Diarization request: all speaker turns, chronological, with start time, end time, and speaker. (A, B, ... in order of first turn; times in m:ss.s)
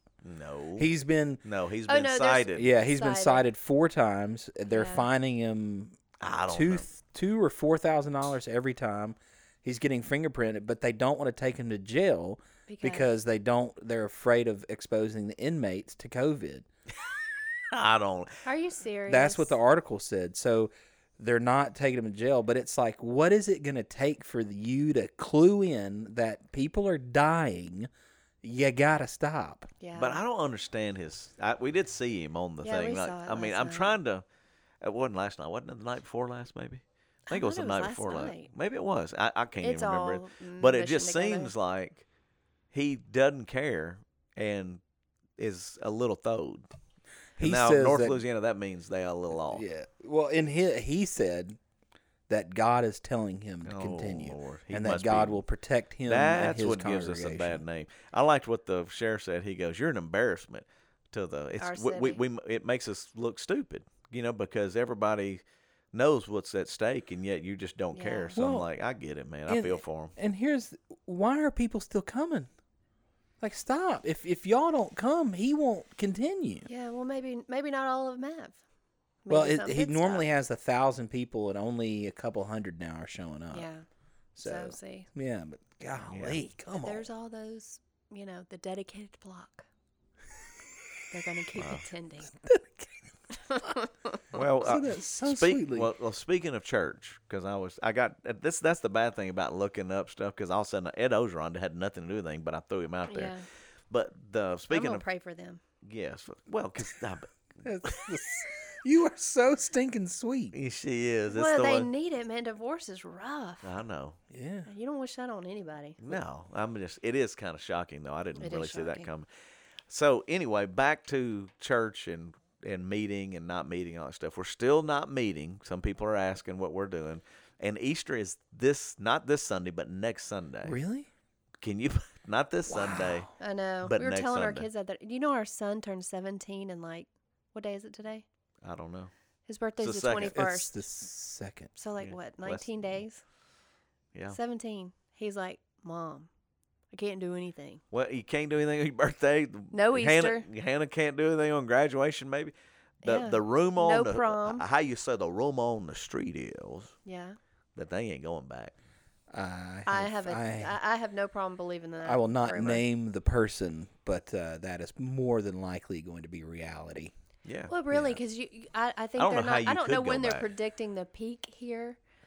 0:00.2-0:00.9 A
0:00.8-0:01.4 B
0:01.4-0:02.7 A
0:01.9-0:03.4 C
0:02.5-0:06.0 B
0:04.7-0:05.1 C
0:06.2-0:06.8 A
0:06.5-0:16.6 B
0:12.7-0:13.1 C
0:17.7-0:18.3 A
0:18.4-0:19.6 C
0:19.1-0:27.9 B
0:28.4-0:29.7 B
0:29.8-0:30.2 C
0:29.9-0:34.2 A
0:32.6-0:34.0 C
0:34.8-0:42.0 A
0:37.3-0:38.5 C
0:39.6-0:41.5 C
0:42.7-0:44.8 A
0:45.4-0:46.7 A
0:47.4-0:48.2 B
0:47.4-0:49.6 A
0:49.5-0:51.6 B
0:52.3-0:57.6 B
0:53.6-0:55.4 A
0:56.0-1:10.1 A
1:01.6-1:02.2 C
1:07.9-1:08.4 C
1:08.4-1:08.7 B
1:09.5-1:12.5 B
1:13.4-1:16.7 B
1:16.7-1:18.6 C
1:19.2-1:20.2 C
1:19.3-1:23.7 B
1:23.5-1:23.8 C
1:24.4-1:27.1 B
1:24.4-1:25.1 C
1:26.1-1:26.4 A
1:26.8-1:29.6 C
1:31.1-1:32.4 C
1:31.6-1:31.8 A
1:32.4-1:32.9 B
1:33.3-1:34.4 C
1:34.3-1:43.4 A
1:34.6-1:35.9 B
1:43.1-1:43.4 C
1:43.9-1:45.0 A
1:44.7-1:45.6 C
1:45.8-1:48.1 A
1:47.6-1:50.5 B
1:50.5-1:51.9 A
1:51.3-1:53.7 C
1:53.6-1:54.2 A
1:54.3-1:54.7 B
1:54.6-1:56.0 C
1:56.0-1:59.3 A
1:58.4-1:59.1 C
1:59.9-2:10.8 A
2:10.6-2:11.1 B
2:11.6-2:13.3 A
2:12.7-2:13.3 B
2:13.4-2:18.2 C
2:13.8-2:14.7 A
2:18.6-2:19.1 A
2:19.5-2:20.8 C
2:19.8-2:20.4 A
2:20.3-2:21.7 B
2:21.8-2:23.2 C
2:22.0-2:22.7 A
2:24.3-2:26.3 C
2:26.9-2:27.8 C
2:27.9-2:36.9 A
2:29.7-2:30.4 C
2:33.0-2:34.6 C
2:37.0-2:37.4 C
2:37.7-2:38.7 A
2:39.3-2:40.8 B
2:39.9-2:42.8 C
2:42.0-2:47.1 B
2:47.4-2:47.7 A
2:47.7-2:52.0 C
2:47.9-2:48.2 B
2:49.2-2:50.5 A